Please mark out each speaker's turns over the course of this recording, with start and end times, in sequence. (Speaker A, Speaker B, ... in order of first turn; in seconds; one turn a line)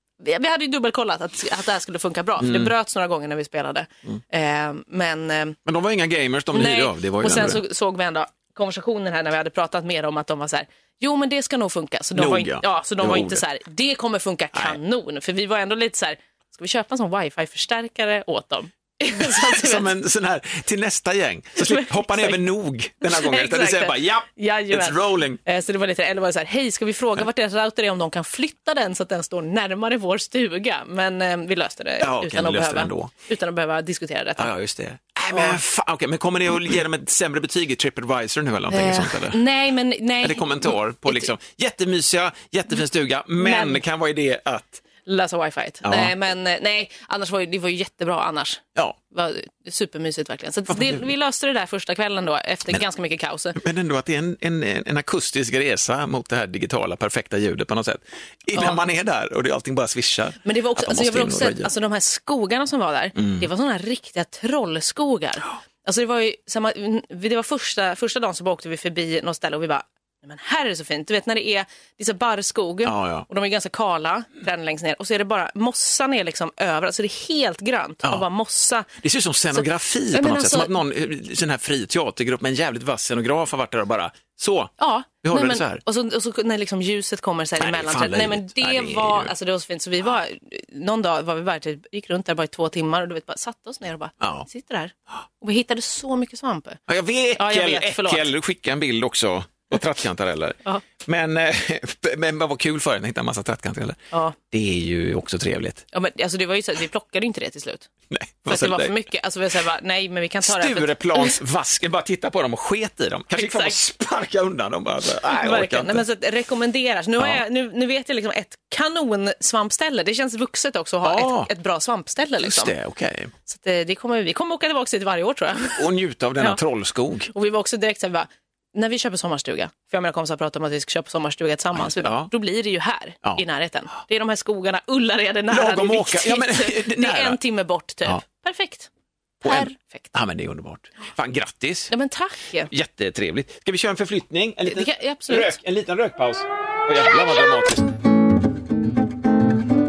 Speaker A: 0.2-5.6
Speaker B: 2.4-2.7
Speaker B: 5.7-7.6
Speaker A: 6.5-19.9
Speaker B: 12.1-13.4
Speaker B: 14.5-14.8
Speaker B: 19.2-25.4
Speaker A: 21.6-22.4
Speaker A: 23.0-34.5
Speaker B: 32.0-33.1
Speaker B: 34.4-39.4
Speaker A: 35.3-35.6
Speaker A: 38.7-41.3
Speaker B: 40.2-44.8
Speaker A: 43.4-43.8
Speaker A: 45.0-53.6
Speaker B: 45.8-46.1
Speaker B: 50.7-51.0
Speaker B: 53.5-61.7
Speaker A: 58.5-58.8
Speaker A: 60.4-78.9
Speaker B: 63.1-63.5
Speaker B: 72.8-73.2
Speaker B: 79.0-85.8
Speaker A: 79.5-80.7
Speaker A: 84.8-96.8
Speaker B: 87.6-89.3
Speaker B: 94.2-94.5
Speaker B: 96.9-104.0
Speaker A: 97.3-98.3
Speaker A: 104.1-104.4
Speaker B: 104.5-105.8
Speaker A: 105.9-107.9
Speaker B: 108.1-108.9
Speaker A: 108.5-111.4
Speaker B: 110.4-116.0
Speaker A: 113.3-113.8
Speaker A: 115.3-122.7
Speaker B: 121.0-121.5
Speaker B: 122.4-123.3
Speaker A: 123.5-125.9
Speaker B: 125.8-127.3
Speaker A: 127.3-138.9
Speaker B: 131.7-132.3
Speaker B: 135.5-137.4
Speaker A: 139.4-140.1
Speaker B: 139.4-141.9
Speaker A: 141.9-142.7
Speaker B: 142.7-147.9
Speaker A: 144.6-145.6